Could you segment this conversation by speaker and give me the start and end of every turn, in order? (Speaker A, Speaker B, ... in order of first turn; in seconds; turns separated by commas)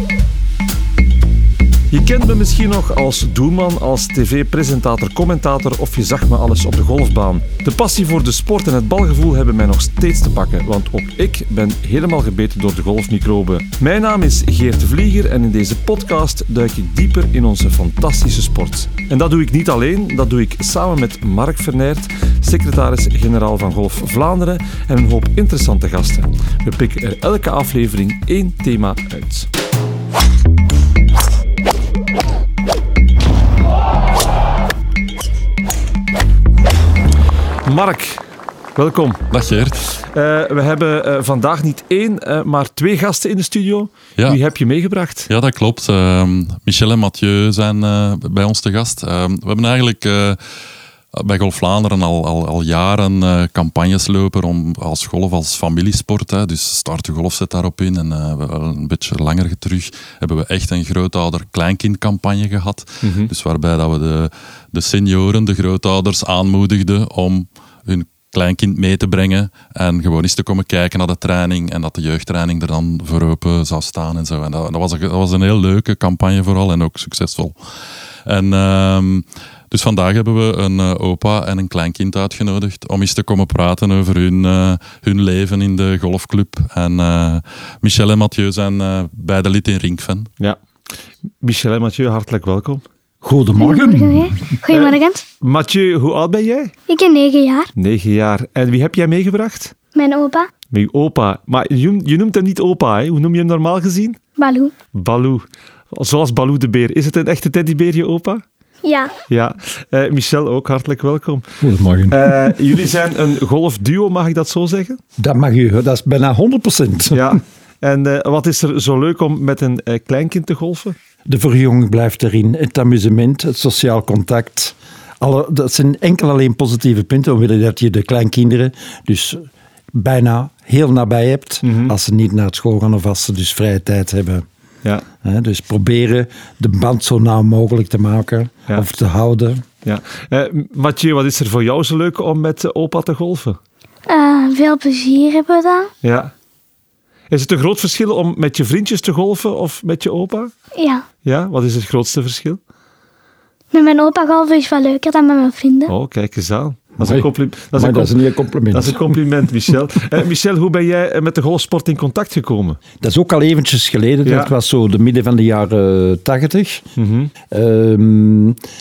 Speaker A: 1.9-29.5, Speaker A: 37.6-38.2, Speaker A: 38.8-39.2, Speaker B: 39.3-39.8, Speaker A: 40.0-45.3, Speaker B: 45.3-50.4, Speaker B: 51.1-77.5, Speaker A: 63.0-63.3, Speaker B: 78.3-90.3, Speaker A: 91.4-92.8, Speaker C: 93.2-94.5, Speaker D: 93.6-95.2, Speaker A: 94.7-96.8, Speaker D: 96.9-97.7, Speaker A: 97.8-99.7, Speaker D: 100.0-100.5, Speaker A: 100.7-104.2, Speaker D: 104.4-104.7, Speaker A: 104.9-108.4, Speaker D: 108.8-109.2, Speaker A: 109.3-115.0, Speaker C: 111.6-112.7, Speaker C: 115.2-117.4, Speaker A: 117.1-121.0, Speaker C: 121.3-134.4, Speaker A: 131.6-131.9, Speaker C: 135.2-139.7, Speaker A: 139.8-143.6, Speaker D: 144.1-145.9, Speaker A: 146.0-146.3, Speaker A: 147.3-150.5, Speaker D: 150.8-151.1, Speaker A: 151.2-152.6, Speaker D: 153.7-155.9, Speaker A: 155.9-158.2, Speaker C: 157.0-159.2, Speaker A: 158.7-162.8, Speaker C: 163.0-166.8, Speaker A: 164.2-164.5, Speaker A: 167.0-167.3, Speaker C: 167.5-168.6